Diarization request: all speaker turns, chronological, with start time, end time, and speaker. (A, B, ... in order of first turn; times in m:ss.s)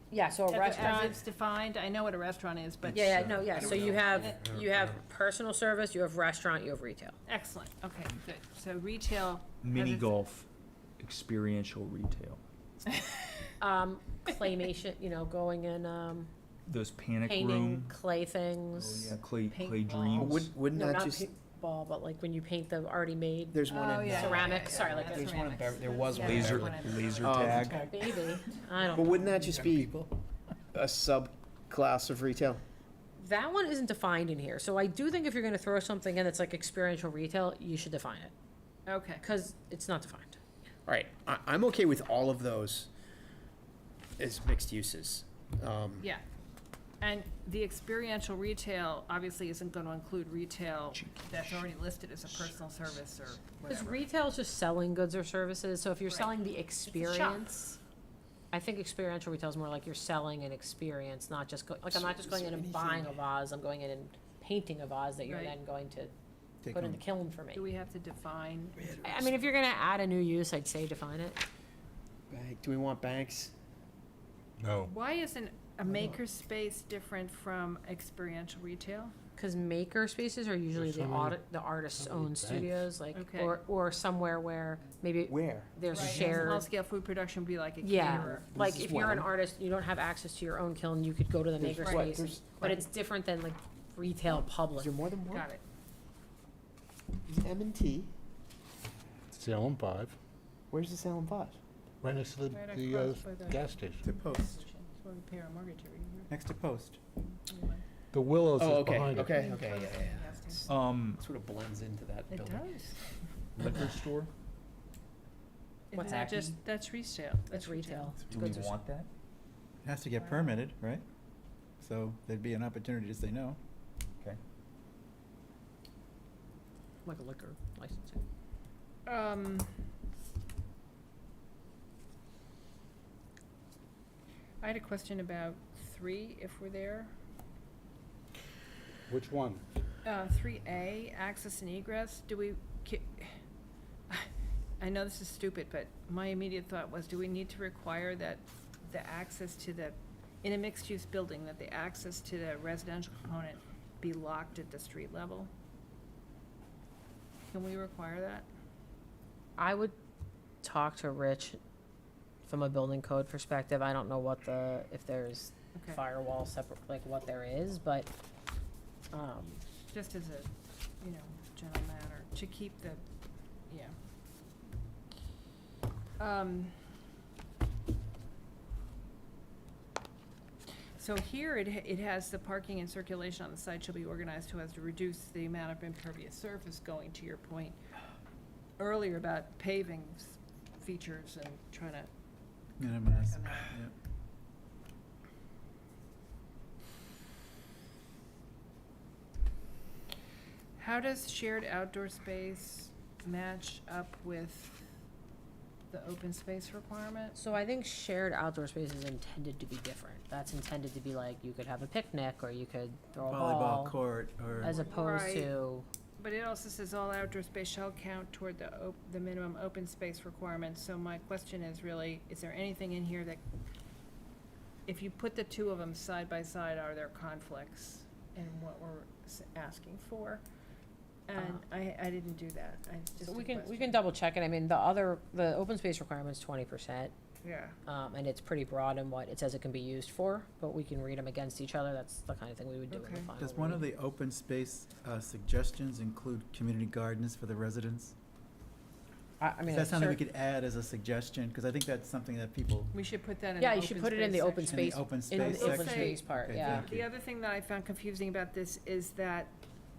0:00.1-0:01.2 A
0:00.5-0:04.6 B
0:02.9-0:07.2 A
0:03.0-0:04.4 C
0:07.3-0:10.1 B
0:09.6-0:10.5 D
0:11.0-0:12.4 D
0:13.0-0:13.2 B
0:13.6-0:16.3 A
0:16.7-0:18.0 D
0:17.2-0:19.2 A
0:18.8-0:20.5 D
0:19.5-0:20.4 B
0:20.2-0:21.3 C
0:20.7-0:25.6 A
0:23.5-0:27.9 C
0:23.7-0:27.9 B
0:26.2-0:27.8 D
0:27.4-0:27.8 E
0:27.6-0:29.6 A
0:28.8-0:30.1 C
0:30.7-0:32.6 C
0:33.2-0:38.3 A
0:38.9-0:39.2 B
0:39.2-0:40.4 A
0:40.9-0:42.9 C
0:44.2-0:46.1 C
0:47.0-0:54.0 B
0:50.9-0:51.7 D
0:53.7-0:57.8 A
0:56.9-0:57.4 B
0:58.5-1:06.1 A
1:01.9-1:03.2 C
1:05.3-1:05.6 B
1:06.6-1:07.0 E
1:06.7-1:07.6 A
1:07.5-1:09.4 B
1:09.0-1:11.4 A
1:12.3-1:13.5 C
1:14.6-1:14.9 F
1:14.8-1:19.1 B
1:19.4-1:26.7 A
1:20.7-1:21.4 F
1:22.0-1:22.8 F
1:23.1-1:23.6 B
1:25.3-1:26.5 C
1:25.9-1:28.5 B
1:27.8-1:35.0 A
1:28.5-1:29.3 C
1:31.6-1:32.5 C
1:31.8-1:32.8 B
1:34.3-1:35.5 C
1:35.3-1:35.6 B
1:37.3-1:38.1 C
1:39.3-1:40.2 F
1:40.7-1:41.6 C
1:42.0-1:44.0 F
1:42.5-1:46.3 B
1:44.0-1:44.6 E
1:46.3-1:47.0 E
1:47.4-1:47.8 B
1:48.1-1:49.3 F
1:48.6-1:50.6 C
1:49.2-1:50.7 B
1:50.7-1:51.2 D
1:51.2-1:52.7 C
1:52.3-1:53.1 B
1:53.6-1:54.3 D
1:55.9-1:56.4 A
1:55.9-1:58.2 B
1:57.5-1:58.8 A
1:58.3-1:59.1 D
1:59.8-2:01.0 E
2:00.2-2:00.4 B
2:01.8-2:03.6 E
2:07.0-2:08.2 A
2:09.1-2:09.8 B
2:14.6-2:17.1 B
2:19.1-2:19.6 F
2:20.0-2:23.4 B
2:24.8-2:35.5 B
2:37.5-2:38.5 B
2:39.6-2:40.0 A
2:40.6-2:41.6 A
2:42.5-2:48.1 A
2:45.8-2:46.0 B
2:49.1-2:49.6 A
2:49.9-2:53.0 B
2:53.7-2:54.0 B
2:56.2-2:56.8 B
3:01.0-3:07.8 B
3:08.8-3:12.1 B
3:12.8-3:13.9 E
3:13.0-3:13.8 B
3:20.8-3:24.9 B
3:25.9-3:27.4 B
3:27.4-3:34.0 A
3:33.2-3:34.8 E
3:34.6-3:35.9 A
3:34.7-3:35.5 B
3:36.2-3:43.4 B
3:44.9-3:50.4 B
3:51.3-3:54.0 B
3:53.2-3:57.1 A
3:57.4-3:57.8 B
3:57.9-4:03.9 A
4:02.9-4:03.3 B
4:03.4-4:08.2 E
4:09.4-4:10.2 A
4:09.7-4:12.9 E
4:12.9-4:19.6 B
4:13.6-4:16.9 A
4:14.6-4:17.1 E